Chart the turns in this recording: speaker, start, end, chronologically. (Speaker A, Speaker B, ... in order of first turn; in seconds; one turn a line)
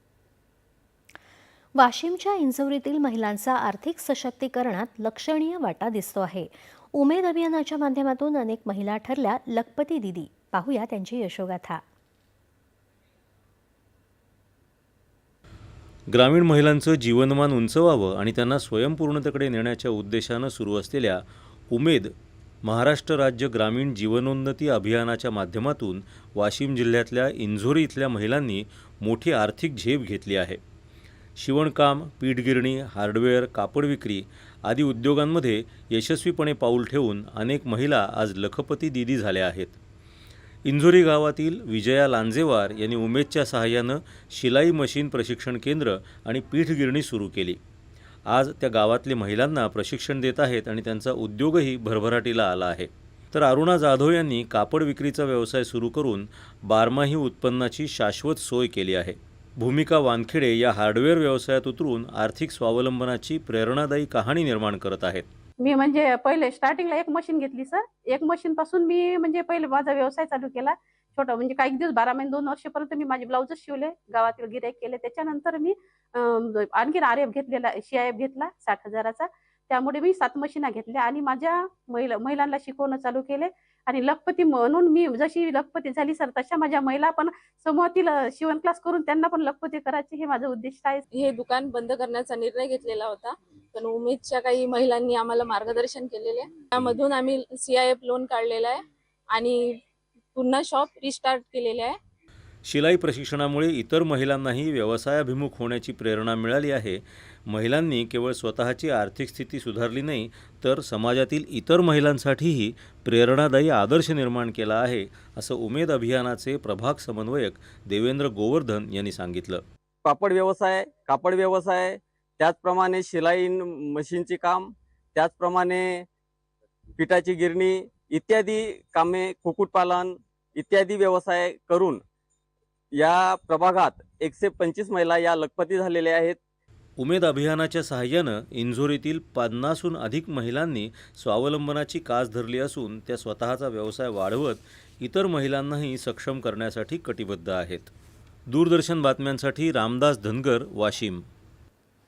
Speaker A: 1.8-11.8
Speaker B: 16.1-22.1
Speaker B: 22.6-30.6
Speaker B: 31.4-39.8
Speaker B: 40.7-47.6
Speaker B: 48.3-65.2
Speaker C: 65.6-91.0
Speaker D: 91.1-98.8
Speaker D: 99.3-99.6
Speaker D: 100.3-101.9
Speaker B: 102.7-119.6
Speaker E: 120.0-126.1
Speaker E: 127.0-132.0
Speaker E: 132.9-136.4
Speaker B: 137.0-147.9
Speaker B: 148.5-151.2